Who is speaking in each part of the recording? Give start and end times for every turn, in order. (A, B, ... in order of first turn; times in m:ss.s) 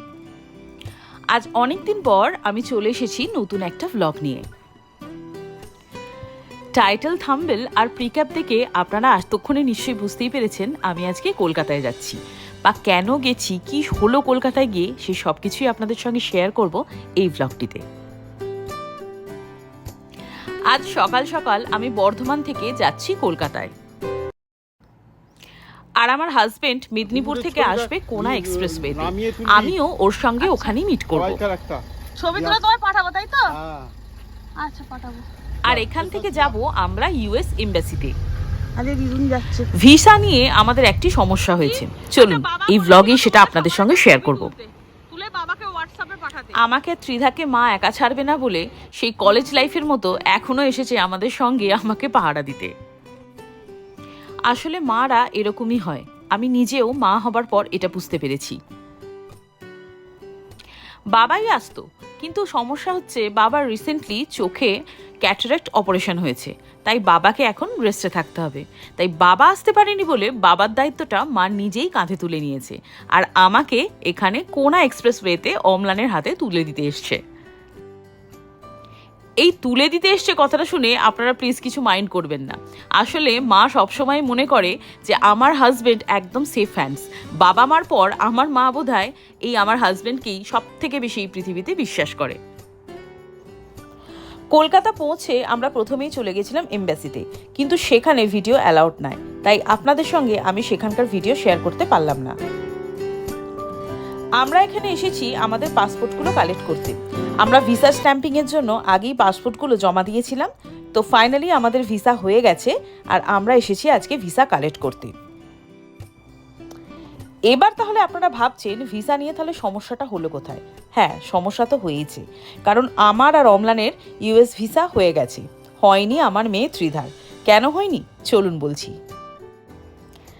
0:01.3-0:04.4 A
0:06.8-0:17.8 A
0:20.7-0:23.7 A
0:26.0-0:31.4 A
0:27.1-0:29.8 B
0:30.4-0:30.7 C
0:31.1-0:31.8 B
0:32.2-0:33.5 C
0:32.3-0:32.6 B
0:33.5-0:33.9 B
0:34.6-0:35.2 C
0:35.6-0:38.1 A
0:35.7-0:36.5 B
0:38.8-0:39.7 C
0:39.7-0:44.5 A
0:41.6-0:46.6 C
0:46.5-0:52.7 A
0:54.5-0:58.6 A
1:01.1-1:17.2 A
1:19.4-1:32.4 A
1:34.5-1:42.3 A
1:44.4-1:55.1 A
1:57.5-2:08.9 A